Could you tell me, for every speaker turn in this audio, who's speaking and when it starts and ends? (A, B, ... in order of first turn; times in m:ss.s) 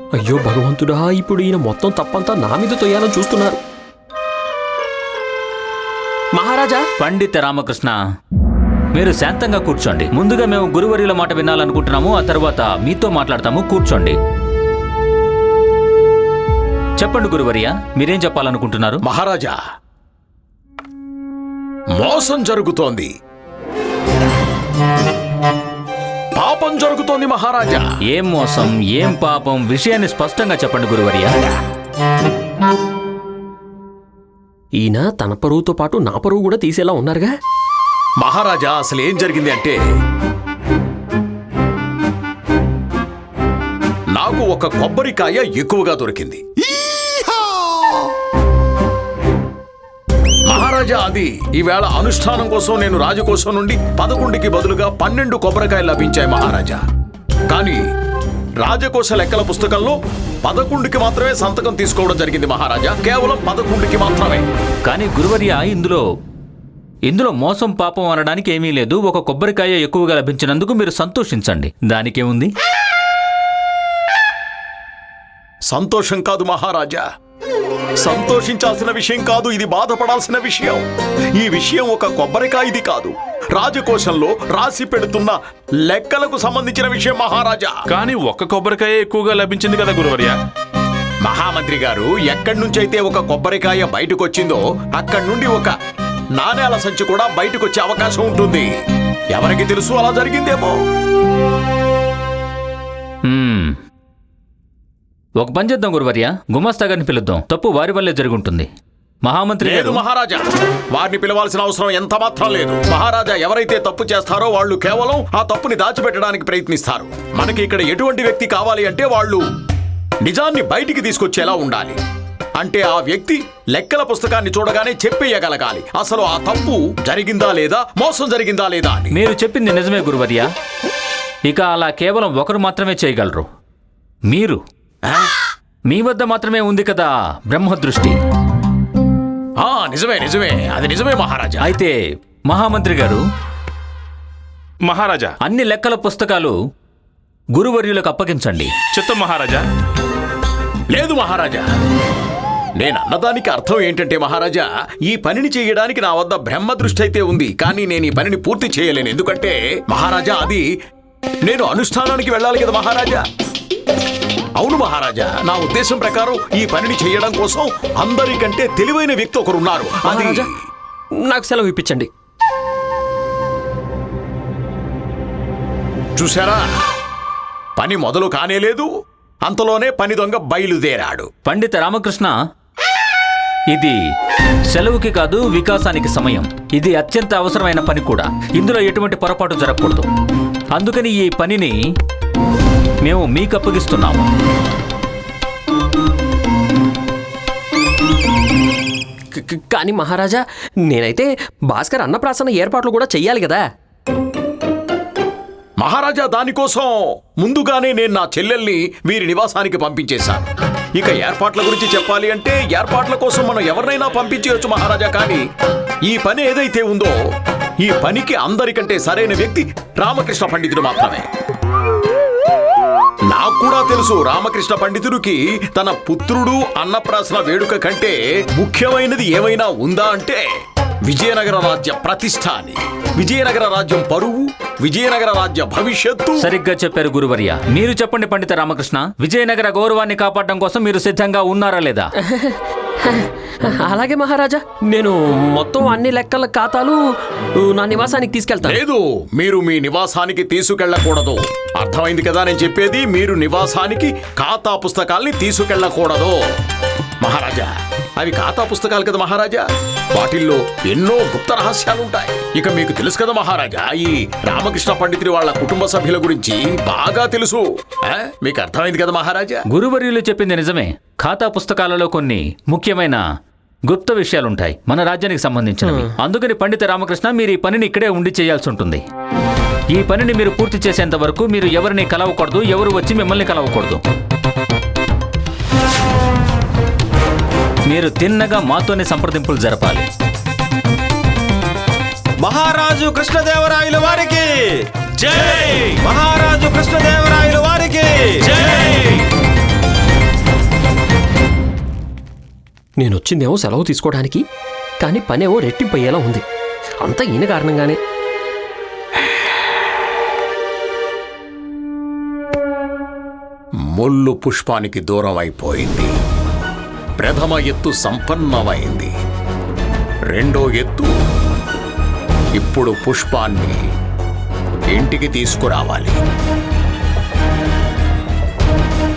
0:00.2-0:03.6 A
0:06.3-0:06.8 A
0:07.0-0:08.0 B
0:08.9-0:14.2 B
0:17.0-0:19.0 B
0:19.0-0:19.6 C
0:22.0-0:23.1 C
0:26.4-0:27.8 C
0:28.1-0:31.3 B
0:34.8-0:37.3 A
0:38.2-0:39.8 C
0:44.1-0:46.4 C
0:50.5-0:56.8 C
0:57.5-0:57.8 C
0:58.6-1:04.4 C
1:04.8-1:06.0 B
1:07.1-1:12.5 B
1:15.7-1:17.0 C
1:18.0-1:20.8 C
1:21.4-1:27.7 C
1:27.9-1:30.3 D
1:31.2-1:35.7 C
1:36.3-1:38.7 C
1:39.3-1:40.7 C
1:43.2-1:43.8 B
1:45.4-1:48.7 B
1:49.2-1:50.0 B
1:49.6-1:59.4 C
2:00.2-2:02.0 C
2:02.6-2:09.2 C
2:09.1-2:10.5 B
2:11.4-2:13.4 B
2:14.3-2:14.6 B
2:15.9-2:18.2 B
2:19.6-2:21.7 C
2:21.6-2:22.0 B
2:22.5-2:23.2 B
2:24.8-2:25.3 D
2:25.4-2:26.5 B
2:27.6-2:28.7 B
2:28.9-2:29.6 D
2:30.9-2:31.7 C
2:32.8-2:40.6 C
2:41.4-2:43.2 C
2:44.6-2:50.5 C
2:50.0-2:50.5 A
2:51.2-2:52.1 A
2:56.2-2:56.6 C
2:57.8-2:58.9 C
2:59.4-3:01.3 C
3:01.4-3:02.3 B
3:04.7-3:10.0 B
3:10.7-3:11.7 B
3:13.0-3:14.3 B
3:19.3-3:23.6 A
3:25.8-3:35.4 C
3:36.1-3:37.1 C
3:37.8-3:41.3 C
3:43.3-3:50.4 C
3:51.0-3:56.4 C
3:56.4-4:02.1 B
4:02.2-4:07.0 A
4:07.6-4:08.8 A
4:08.6-4:16.4 C
4:17.2-4:29.6 C
4:29.7-4:33.2 B
4:33.9-4:39.0 B
4:35.8-4:36.1 A
4:39.9-4:44.0 B
4:47.9-4:50.1 B
4:52.4-4:54.6 E
4:55.2-4:59.2 E
5:03.0-5:04.4 A
5:05.0-5:06.4 A
5:07.0-5:08.0 A
5:13.9-5:16.1 C
5:17.2-5:19.1 C
5:20.3-5:21.1 C
5:22.6-5:23.8 C
5:24.9-5:26.2 C